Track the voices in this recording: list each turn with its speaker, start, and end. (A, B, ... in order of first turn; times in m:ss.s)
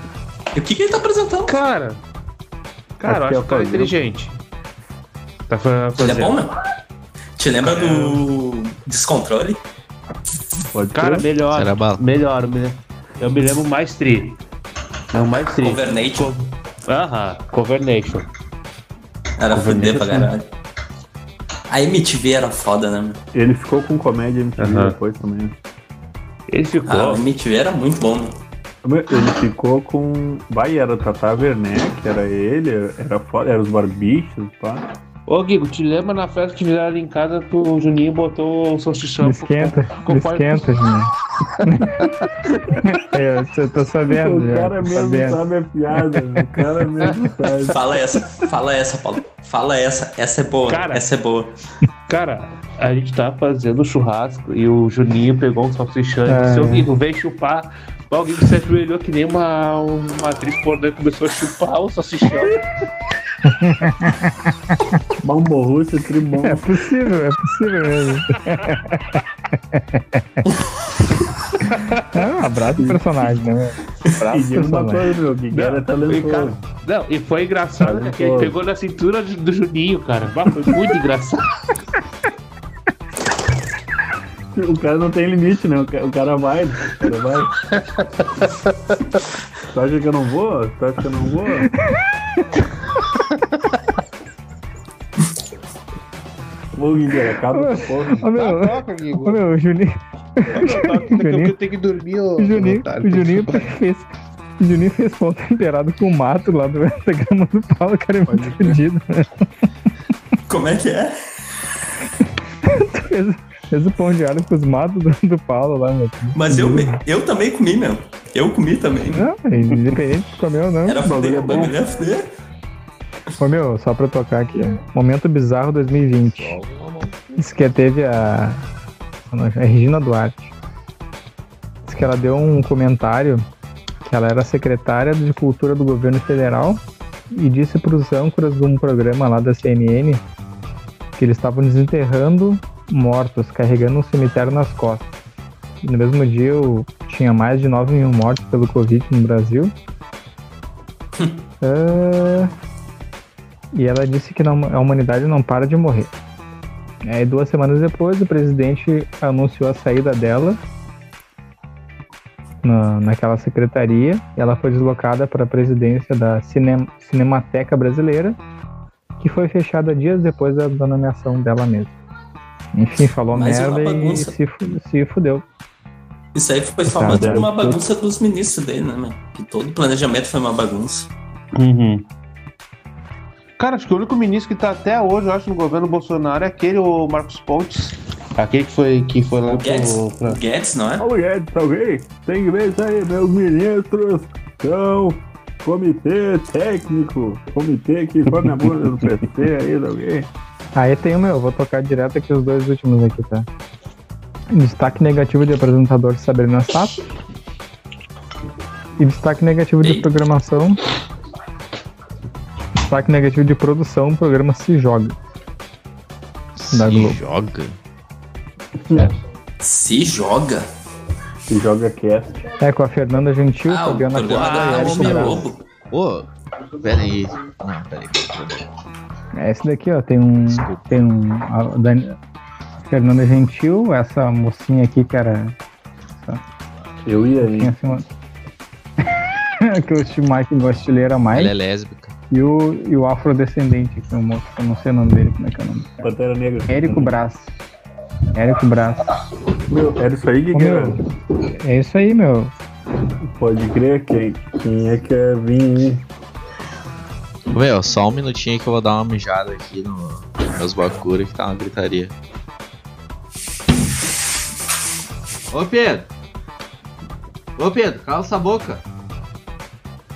0:00.6-0:01.6 A
0:01.5-0:02.0 B
0:03.0-0:04.4 B
0:03.0-0:04.0 C
0:05.5-0:06.4 B
0:06.0-0:06.6 A
0:07.4-0:09.6 A
0:07.6-0:08.2 B
0:10.7-0:11.3 C
0:10.9-0:14.4 B
0:11.5-0:12.0 D
0:15.1-0:18.3 B
0:15.6-0:16.3 A
0:19.4-0:20.5 A
0:19.5-0:20.3 B
0:21.7-0:23.2 A
0:23.3-0:25.6 C
0:24.6-0:25.0 B
0:26.5-0:27.3 B
0:26.9-0:28.4 A
0:28.8-0:34.9 C
0:35.3-0:40.7 B
0:39.2-0:42.1 E
0:42.8-0:45.4 E
0:44.1-0:47.8 C
0:47.7-0:51.6 A
0:50.7-0:51.1 B
0:52.1-1:02.6 B
0:56.3-0:56.9 E
1:03.4-1:04.5 E
1:05.2-1:06.7 C
1:06.4-1:10.4 E
1:12.1-1:15.1 E
1:14.3-1:16.6 C
1:15.5-1:21.6 B
1:17.8-1:18.6 C
1:24.5-1:27.5 C
1:29.7-1:31.7 C
1:31.8-1:32.6 E
1:36.8-1:38.3 C
1:37.5-1:41.6 E
1:38.2-1:39.4 B
1:40.5-1:43.7 B
1:42.4-1:49.5 E
1:50.5-1:51.2 A
1:52.6-1:57.0 E
1:56.4-1:59.3 A
1:59.1-2:01.3 E
2:00.9-2:02.3 A
2:01.1-2:01.8 C
2:03.4-2:06.6 E
2:06.6-2:07.1 D
2:07.4-2:08.6 E
2:09.3-2:10.5 E
2:11.9-2:13.4 E
2:14.0-2:20.2 E
2:21.2-2:25.1 E
2:25.8-2:29.7 E
2:31.6-2:32.5 E
2:33.7-2:36.1 E
2:37.1-2:40.6 E
2:42.6-2:48.4 E
2:49.2-2:52.0 E
2:52.8-2:55.4 E
2:53.3-2:54.4 A
2:56.4-3:01.1 A
2:56.9-2:57.5 E
2:57.1-2:57.8 C
3:01.6-3:02.1 B
3:03.6-3:10.4 B
3:09.5-3:11.1 A
3:11.0-3:20.3 C
3:20.8-3:23.5 E
3:24.5-3:27.0 E
3:29.0-3:30.8 E
3:29.8-3:30.1 A
3:32.9-3:35.2 E
3:36.6-3:37.8 D
3:36.7-3:37.2 E
3:39.6-3:40.7 A
3:41.5-3:42.4 C
3:42.6-3:45.5 E
3:43.7-3:45.6 A
3:44.3-3:45.5 B
3:45.9-3:46.3 D
3:46.8-3:48.7 D
3:49.4-3:52.2 E
3:50.5-3:50.9 D
3:52.9-3:55.6 E
3:57.1-3:57.7 C
3:57.4-3:58.1 E
3:59.0-4:01.5 E
4:01.3-4:02.1 D
4:02.3-4:06.0 E
4:06.0-4:07.2 C
4:06.7-4:07.5 E
4:08.3-4:09.2 E
4:09.7-4:11.0 C
4:10.5-4:12.5 E
4:13.2-4:16.0 C
4:17.5-4:22.2 D
4:25.5-4:26.1 D
4:27.6-4:28.8 D